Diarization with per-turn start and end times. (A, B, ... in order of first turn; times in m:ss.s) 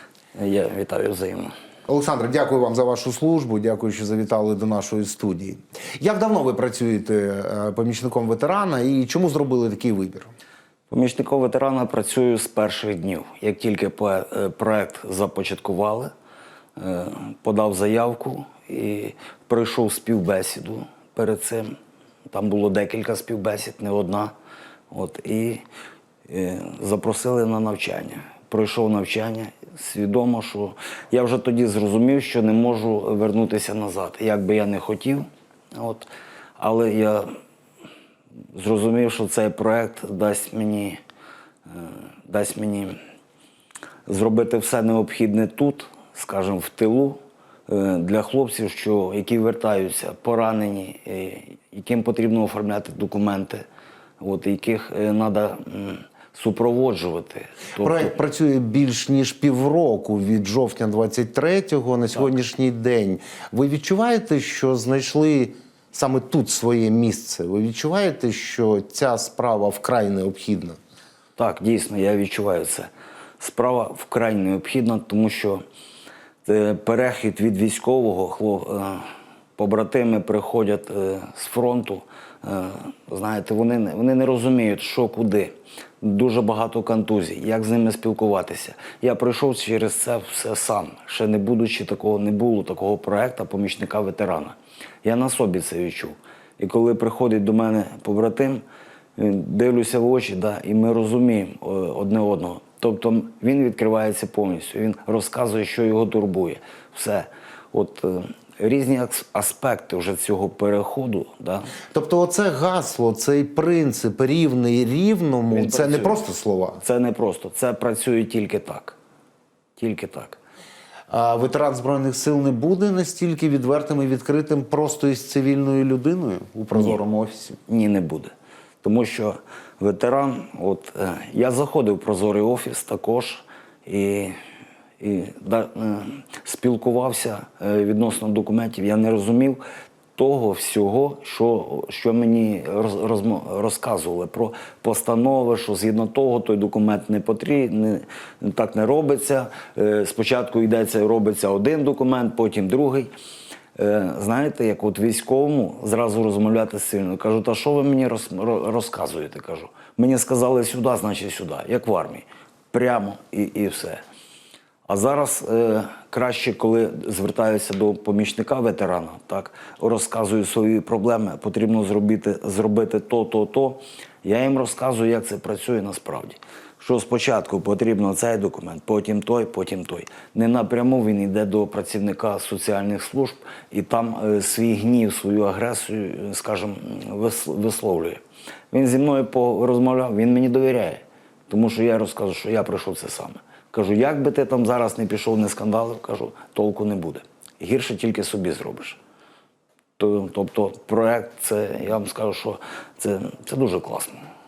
0:00.4-0:01.5 A
0:01.9-0:10.3 B
0:10.9-0:16.1 A
0:16.8-0:21.7 A
0:22.3-0:24.3 A
0:24.9-0:25.6 A
0:26.3-0:37.3 A
0:38.5-0:41.0 A
0:41.7-0:42.9 A
0:44.1-0:53.6 A
0:54.2-0:58.1 A
0:57.8-1:10.8 B
1:11.4-1:12.9 A
1:13.4-1:15.6 A
1:16.4-1:19.0 A
1:19.6-1:38.6 A
1:39.2-1:51.7 A
1:51.9-1:56.8 B
1:55.5-1:56.2 A
1:56.8-1:59.0 A
1:59.8-2:00.4 A
2:01.1-2:07.6 B
2:06.7-2:07.0 A
2:07.7-2:08.3 A
2:08.8-2:14.3 A
2:15.0-2:19.6 A
2:20.2-2:33.1 A
2:33.8-2:44.0 A
2:44.9-3:08.2 A
3:08.7-3:19.0 A
3:20.0-3:24.2 A